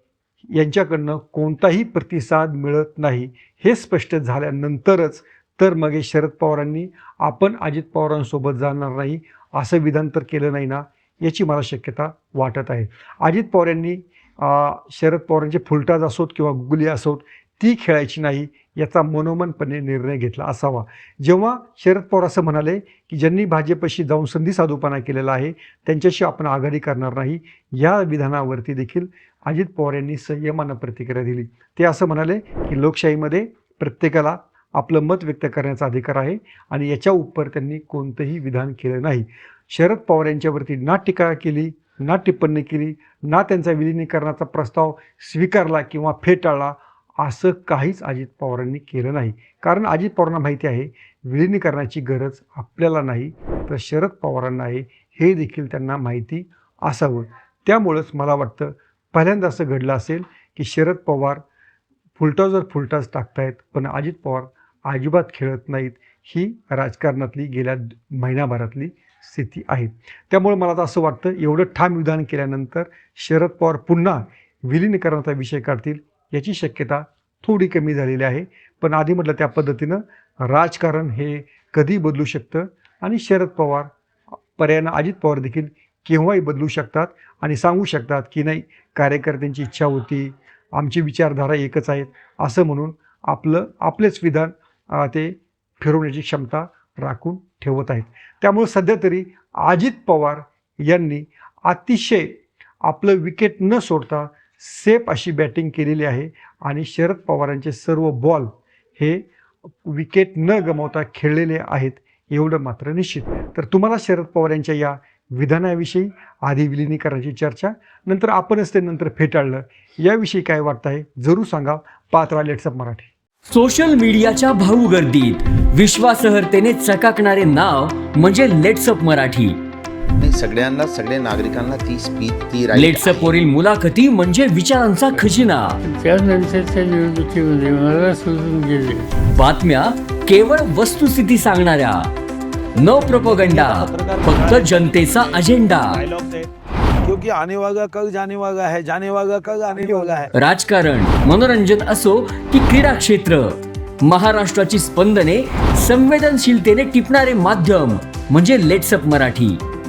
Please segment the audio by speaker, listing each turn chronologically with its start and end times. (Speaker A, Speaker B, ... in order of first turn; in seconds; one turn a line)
Speaker A: 0.5-61.4
Speaker A: 62.2-83.9
Speaker A: 84.6-109.2
Speaker A: 109.8-123.1
Speaker B: 123.5-129.6
Speaker C: 130.2-133.4
Speaker B: 132.7-135.8
Speaker D: 135.8-139.1
Speaker B: 139.3-142.1
Speaker B: 142.8-146.0
Speaker E: 142.9-146.5
Speaker E: 147.0-150.3
Speaker B: 150.3-159.6